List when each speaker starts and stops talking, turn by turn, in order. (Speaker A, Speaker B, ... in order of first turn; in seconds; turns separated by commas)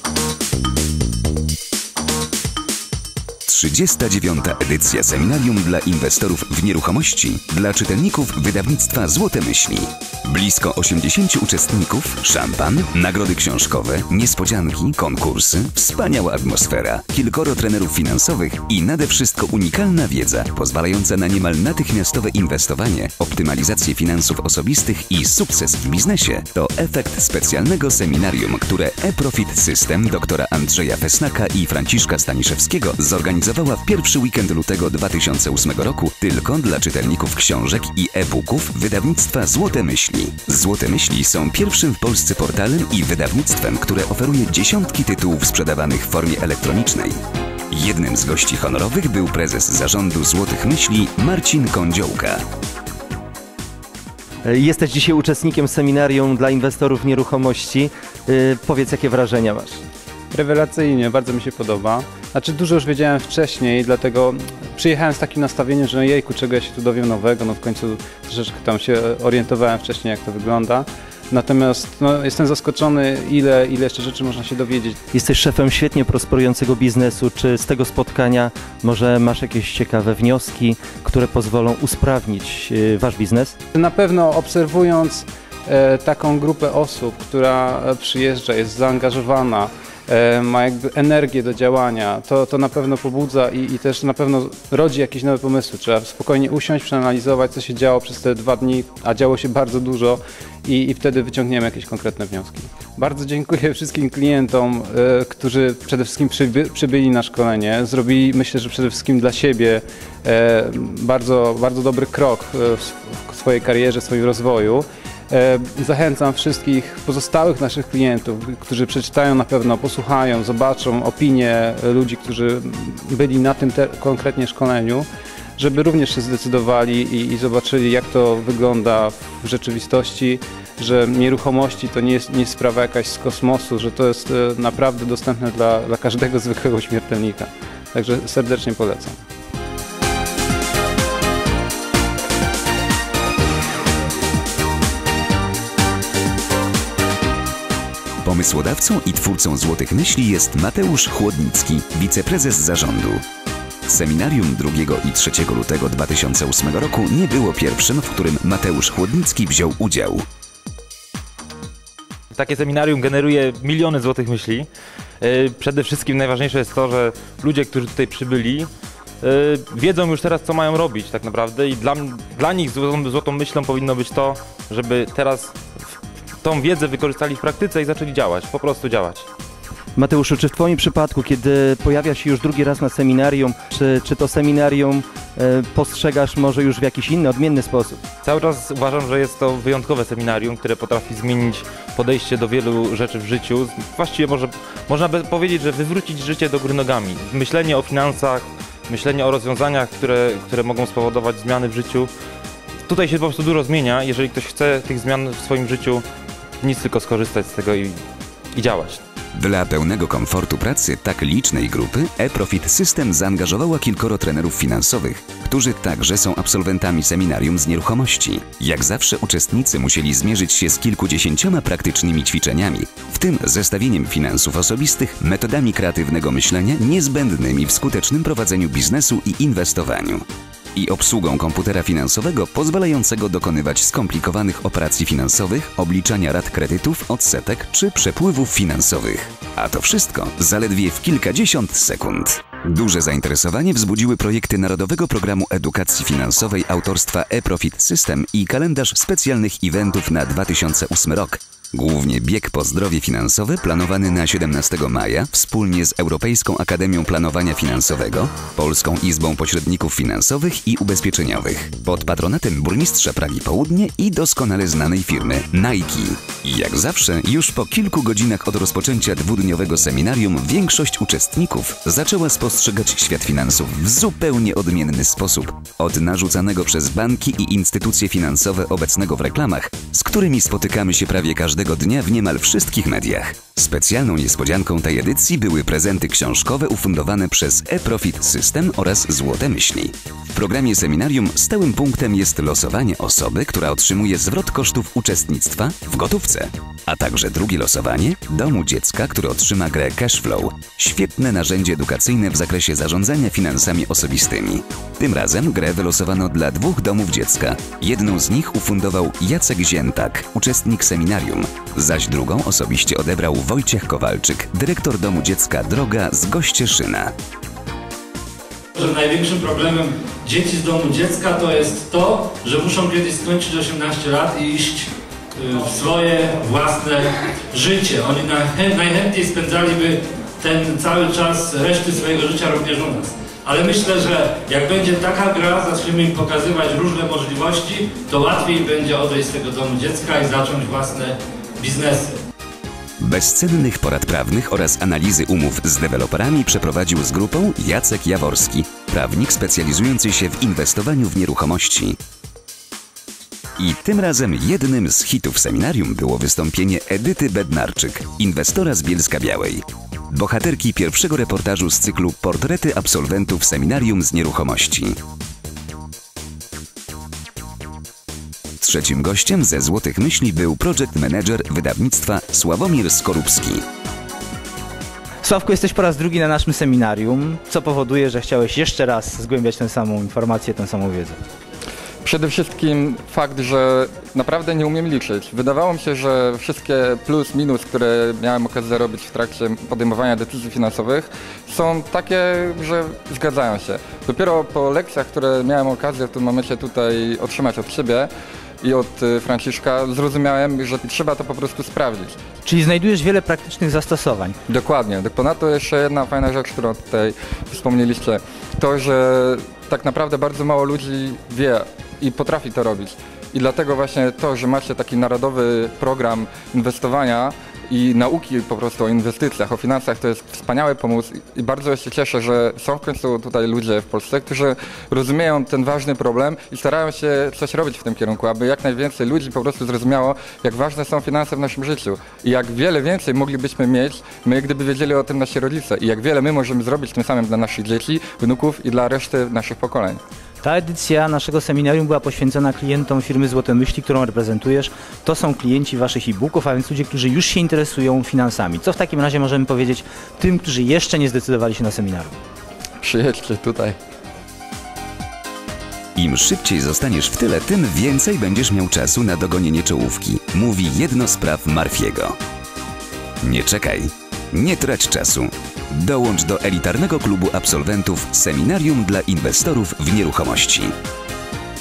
Speaker A: 3.5-47.2, Speaker A: 47.7-52.4, Speaker B: 54.4-59.8, Speaker C: 60.3-75.0, Speaker B: 75.1-83.5, Speaker C: 83.7-139.2, Speaker A: 148.2-153.2, Speaker A: 153.8-160.2, Speaker D: 162.3-164.7, Speaker D: 165.2-168.7, Speaker D: 169.2-175.6, Speaker D: 176.4-179.3, Speaker B: 180.0-188.0, Speaker D: 188.2-202.1, Speaker D: 202.9-206.0, Speaker D: 206.6-208.0, Speaker D: 208.5-209.0, Speaker A: 209.3-230.2, Speaker A: 230.8-317.1, Speaker E: 318.7-342.1, Speaker A: 343.0-352.0, Speaker A: 353.6-365.0, Speaker A: 368.6-373.6, Speaker F: 375.2-381.2, Speaker G: 382.0-398.1, Speaker G: 398.6-402.2, Speaker F: 402.4-404.4, Speaker G: 404.5-440.0, Speaker F: 440.4-452.2, Speaker G: 452.8-453.8, Speaker A: 455.9-462.2, Speaker A: 463.2-470.7